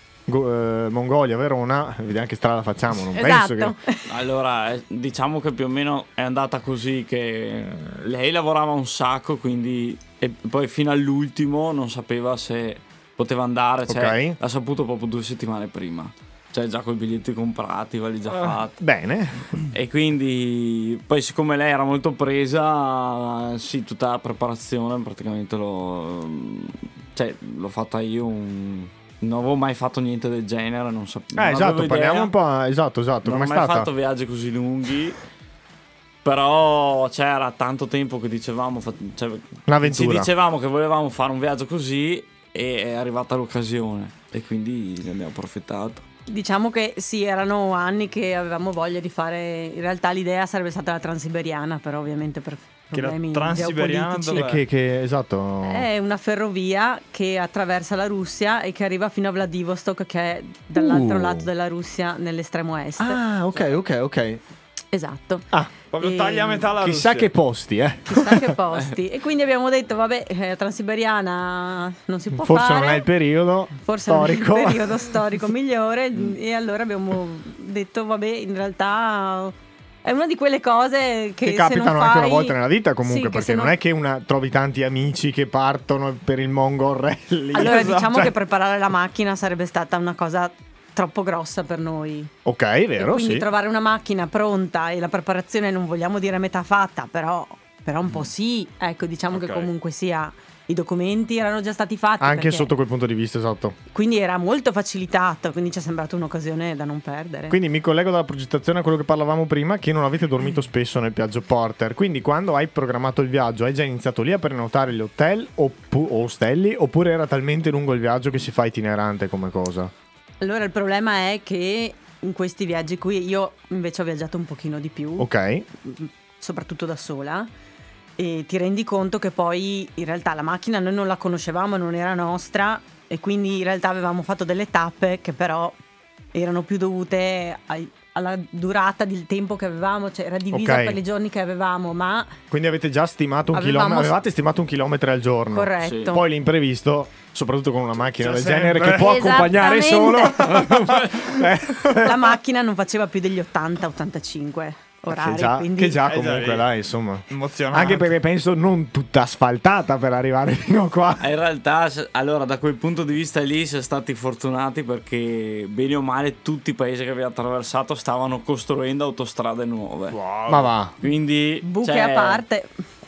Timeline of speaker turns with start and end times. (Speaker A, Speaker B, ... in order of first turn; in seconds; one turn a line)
Speaker A: 0.3-3.8
Speaker B: 3.1-4.0
Speaker C: 4.1-18.8
Speaker A: 13.9-14.4
Speaker A: 18.8-19.5
Speaker C: 19.7-32.3
Speaker A: 31.4-33.9
Speaker C: 33.2-35.2
Speaker C: 36.2-46.0
Speaker A: 39.7-40.3
Speaker B: 46.3-54.5
Speaker D: 52.9-54.6
Speaker A: 54.4-55.9
Speaker B: 55.6-63.2
Speaker A: 60.8-61.5
Speaker A: 63.0-64.4
Speaker B: 64.9-65.5
Speaker D: 65.9-67.3
Speaker B: 66.0-66.7
Speaker A: 66.8-68.5
Speaker B: 68.1-73.1
Speaker A: 72.4-75.1
Speaker B: 73.8-83.8
Speaker A: 81.4-88.3
Speaker B: 87.5-92.3
Speaker D: 87.6-88.2
Speaker A: 92.5-93.5
Speaker B: 93.0-102.7
Speaker D: 99.3-99.7
Speaker A: 102.2-103.8
Speaker B: 103.9-107.6
Speaker A: 107.5-119.9
Speaker B: 120.4-125.3
Speaker A: 125.2-125.7
Speaker B: 125.8-127.5
Speaker B: 128.2-135.8
Speaker B: 136.3-142.4
Speaker A: 140.5-141.0
Speaker A: 142.5-152.3
Speaker B: 143.5-144.2
Speaker B: 145.5-146.3
Speaker C: 145.8-146.1
Speaker D: 148.2-149.3
Speaker B: 148.9-150.5
Speaker C: 150.6-151.2
Speaker B: 152.0-156.0
Speaker A: 155.1-161.3
Speaker D: 156.1-156.7
Speaker D: 157.3-158.1
Speaker C: 161.2-170.2
Speaker D: 170.1-170.7
Speaker A: 170.5-170.9
Speaker C: 171.0-172.4
Speaker B: 171.6-172.7